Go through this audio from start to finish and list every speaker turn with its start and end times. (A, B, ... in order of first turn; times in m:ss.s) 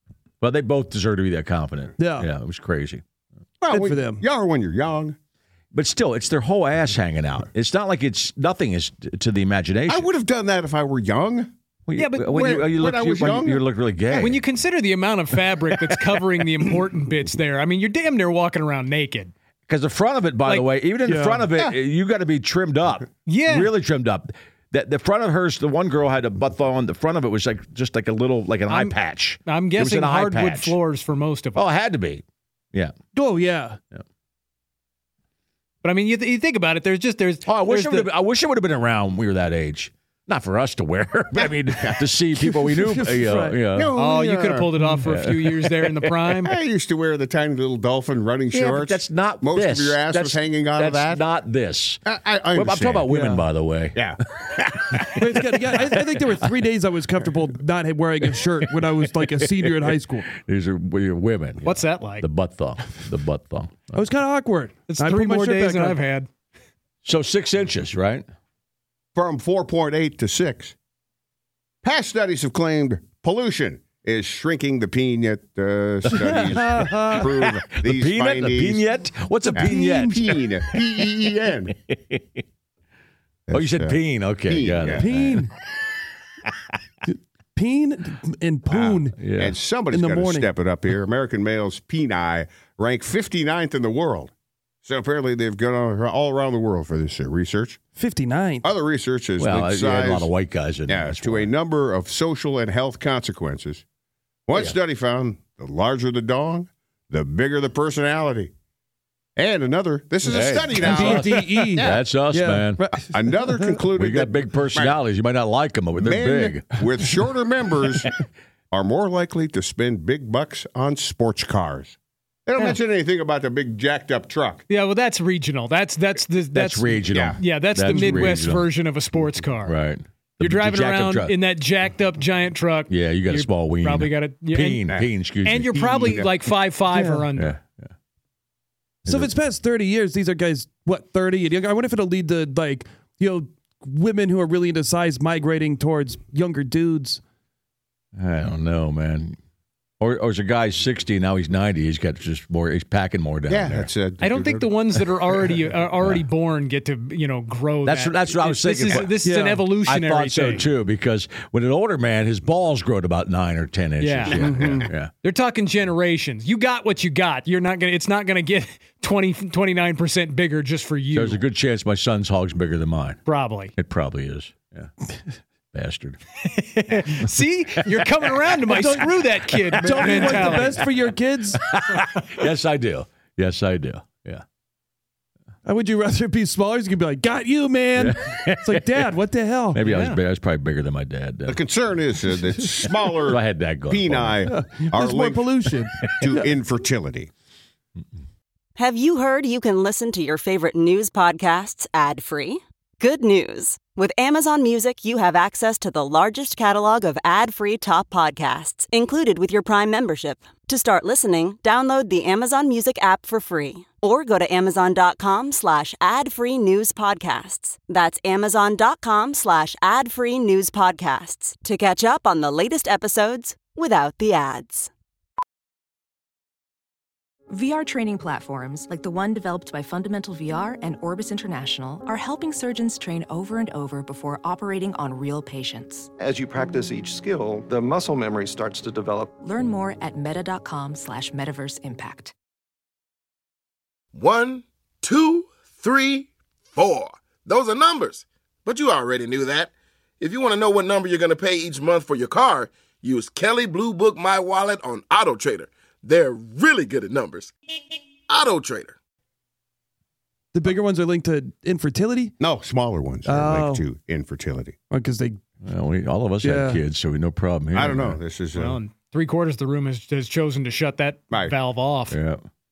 0:00.4-0:03.0 A
0:02.0-0:02.3 B
0:03.6-0:05.2 C
0:03.7-0:04.2 B
0:05.7-0:10.1 A
0:09.9-0:11.5 C
0:11.9-0:14.5 A
0:12.0-0:12.5 D
0:12.2-0:13.6 C
0:14.1-0:19.3 D
0:19.7-0:30.8 A
0:20.4-0:20.7 D
0:21.0-0:21.5 B
0:23.3-0:23.7 D
0:28.7-0:31.7 D
0:31.6-0:32.9 A
0:33.1-0:33.8 B
0:35.8-0:38.1 D
0:37.4-0:43.9 A
0:41.4-0:42.1 C
0:42.4-0:43.6 B
0:43.7-0:44.7 C
0:44.0-0:46.6 D
0:45.0-0:46.4 A
0:46.4-0:51.2 C
0:48.5-0:56.0 A
0:52.1-0:53.2 C
0:53.1-0:53.4 B
0:53.9-0:55.0 C
0:55.2-1:00.3 B
0:59.2-0:59.7 A
1:00.4-1:04.0 A
1:01.6-1:02.3 D
1:03.9-1:06.0 B
1:04.9-1:06.3 D
1:07.0-1:08.2 A
1:09.2-1:10.8 C
1:11.8-1:18.8 C
1:16.0-1:21.1 A
1:16.3-1:17.3 B
1:19.5-1:20.2 B
1:19.6-1:21.8 C
1:21.9-1:22.4 A
1:23.5-1:25.1 C
1:23.5-1:25.5 A
1:24.9-1:25.5 B
1:27.0-1:29.2 B
1:28.7-1:34.3 C
1:29.2-1:29.6 A
1:29.9-1:30.5 B
1:34.8-1:37.8 C
1:38.0-1:38.7 B
1:38.6-1:40.3 C
1:39.4-1:41.5 A
1:40.9-1:43.8 C
1:44.5-1:48.5 C
1:49.4-1:52.0 C
1:50.2-1:52.8 A
1:50.3-1:53.8 B
1:53.1-1:55.0 C
1:54.0-1:57.2 A
1:56.0-1:58.1 C
1:58.7-2:04.6 C
2:04.7-2:09.8 D
2:06.5-2:08.7 A
2:07.1-2:07.4 C
2:07.9-2:08.3 B
2:09.6-2:11.4 A
2:10.4-2:14.8 D
2:12.9-2:15.7 A
2:15.4-2:17.6 D
2:15.7-2:16.3 C
2:16.9-2:17.3 B
2:17.3-2:17.9 A
2:19.0-2:19.3 A
2:19.1-2:27.2 B
2:28.1-2:29.4 A
2:30.0-2:34.0 A
2:33.5-2:34.7 C
2:34.2-2:40.8 D
2:35.9-2:36.3 A
2:37.8-2:45.1 A
2:39.2-2:39.6 B
2:44.0-2:44.4 D
2:44.4-2:44.9 B
2:45.2-2:51.4 D
2:51.1-2:54.9 A
2:53.2-2:53.7 D
2:55.7-2:56.2 A
2:56.4-3:00.8 D
2:57.7-2:58.4 A
2:58.7-2:59.1 B
2:59.6-3:00.8 A
2:59.8-3:01.6 B
3:01.6-3:04.4 A
3:05.6-3:10.0 B
3:08.0-3:09.0 A
3:09.7-3:11.6 A
3:09.9-3:10.2 D
3:11.5-3:15.5 C
3:13.3-3:14.4 A
3:14.4-3:16.5 B
3:16.2-3:17.3 C
3:18.8-3:44.9 E
3:47.5-3:56.1 F
3:56.2-3:59.4 G
3:59.4-4:02.3 F
4:04.1-4:17.5 H
4:18.3-4:18.9 H
4:20.5-4:22.3 B
4:22.4-4:24.8 C
4:23.2-4:23.8 B
4:24.9-4:25.4 B
4:25.6-4:28.2 A
4:26.4-4:26.8 B
4:27.7-4:28.8 C
4:28.5-4:32.2 D
4:32.1-4:32.4 A